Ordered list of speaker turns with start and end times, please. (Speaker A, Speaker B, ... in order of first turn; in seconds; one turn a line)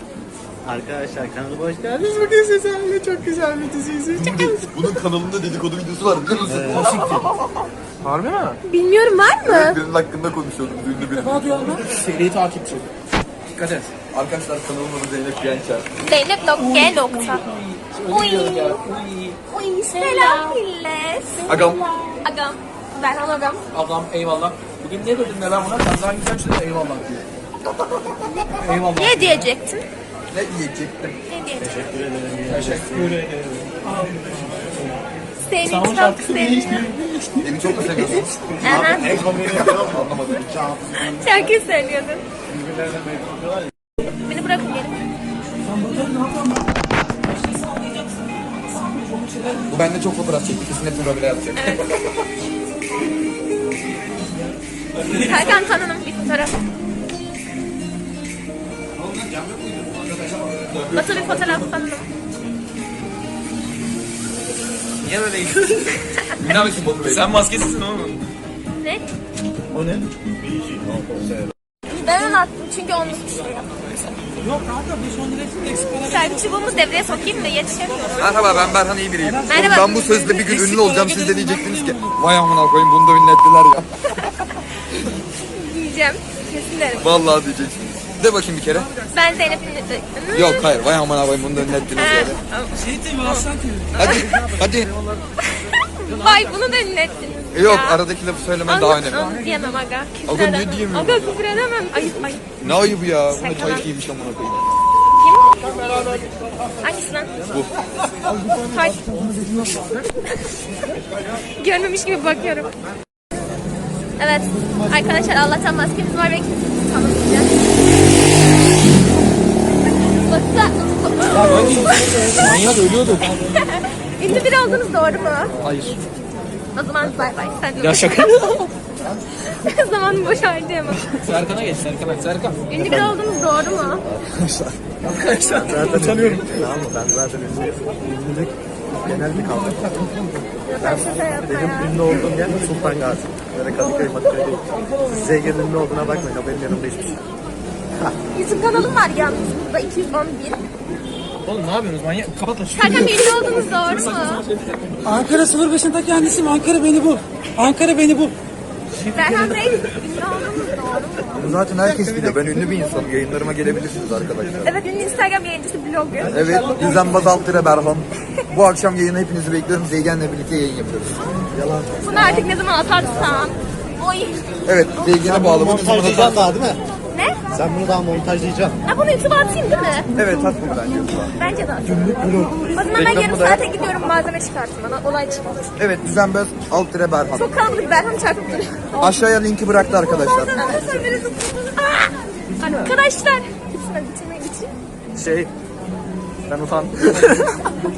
Speaker A: 0.6-4.2
Speaker B: 3.0-4.3
Speaker C: 4.1-7.3
Speaker D: 4.3-4.5
Speaker A: 6.5-7.2
Speaker B: 6.7-7.3
Speaker B: 8.0-8.6
Speaker D: 8.6-9.8
Speaker C: 9.5-11.8
Speaker E: 11.1-11.8
Speaker B: 11.9-12.9
Speaker B: 13.5-13.9
Speaker C: 14.1-15.9
Speaker D: 16.1-17.4
Speaker B: 16.5-19.4
Speaker D: 18.1-18.8
Speaker D: 19.5-21.5
Speaker E: 19.9-20.6
Speaker E: 21.4-22.2
Speaker C: 21.5-21.8
Speaker D: 22.2-23.6
Speaker B: 23.7-27.2
Speaker B: 28.6-29.5
Speaker D: 29.0-29.9
Speaker C: 30.3-31.2
Speaker D: 31.3-31.8
Speaker A: 31.6-33.2
Speaker B: 32.5-33.7
Speaker E: 33.8-34.6
Speaker D: 35.5-36.8
Speaker B: 35.6-37.1
Speaker C: 37.4-40.5
Speaker A: 38.6-41.5
Speaker D: 38.6-39.2
Speaker D: 41.0-42.2
Speaker A: 42.5-43.7
Speaker D: 44.2-45.0
Speaker E: 45.6-49.7
Speaker C: 49.7-51.8
Speaker D: 51.6-51.9
Speaker B: 55.0-55.7
Speaker D: 55.1-56.5
Speaker C: 59.0-61.8
Speaker D: 60.9-62.0
Speaker B: 65.0-68.2
Speaker C: 66.4-67.3
Speaker A: 69.7-71.5
Speaker D: 71.9-73.8
Speaker E: 72.1-72.4
Speaker E: 74.4-78.1
Speaker D: 76.0-78.4
Speaker C: 78.2-83.9
Speaker E: 79.2-82.1
Speaker D: 79.5-80.1
Speaker D: 85.4-87.1
Speaker C: 87.0-88.9
Speaker E: 88.8-89.5
Speaker D: 89.1-90.9
Speaker C: 90.3-92.4
Speaker D: 91.8-93.5
Speaker E: 92.8-94.0
Speaker C: 94.0-94.9
Speaker A: 94.0-97.2
Speaker D: 95.5-98.0
Speaker C: 97.5-99.4
Speaker D: 98.7-102.6
Speaker C: 100.2-101.4
Speaker C: 102.6-104.6
Speaker D: 103.3-103.9
Speaker D: 105.1-106.2
Speaker D: 106.8-107.4
Speaker A: 108.2-110.0
Speaker D: 108.7-109.0
Speaker A: 111.0-111.3
Speaker D: 111.6-112.7
Speaker D: 114.2-117.6
Speaker D: 120.1-122.1
Speaker A: 121.2-123.6
Speaker B: 121.3-123.3
Speaker D: 123.5-125.5
Speaker B: 125.6-126.0
Speaker D: 126.8-128.6
Speaker B: 127.8-128.7
Speaker A: 129.0-129.3
Speaker D: 129.4-131.1
Speaker B: 131.1-132.6
Speaker D: 132.7-134.0
Speaker A: 132.8-133.2
Speaker A: 134.0-134.8
Speaker B: 135.0-136.7
Speaker A: 135.6-140.1
Speaker D: 140.7-142.0
Speaker A: 140.8-147.2
Speaker B: 144.7-145.2
Speaker D: 148.3-150.6
Speaker B: 151.4-155.3
Speaker D: 152.8-154.4
Speaker E: 155.0-158.3
Speaker B: 158.9-159.9
Speaker D: 159.1-161.4
Speaker C: 161.3-164.8
Speaker A: 161.4-163.1
Speaker A: 164.1-164.5
Speaker D: 164.6-166.7
Speaker A: 166.2-167.7
Speaker C: 166.3-171.2
Speaker A: 171.5-172.5
Speaker D: 172.0-174.6
Speaker C: 174.6-176.5
Speaker A: 175.0-176.8
Speaker D: 177.1-177.4
Speaker A: 177.5-178.8
Speaker D: 178.8-180.1
Speaker C: 180.2-181.3
Speaker D: 181.4-185.8
Speaker C: 181.9-183.7
Speaker C: 185.8-187.5
Speaker D: 187.3-189.2
Speaker C: 189.0-190.7
Speaker D: 190.1-194.7
Speaker B: 192.6-192.9
Speaker B: 195.2-195.4
Speaker A: 195.2-195.5
Speaker B: 196.5-197.5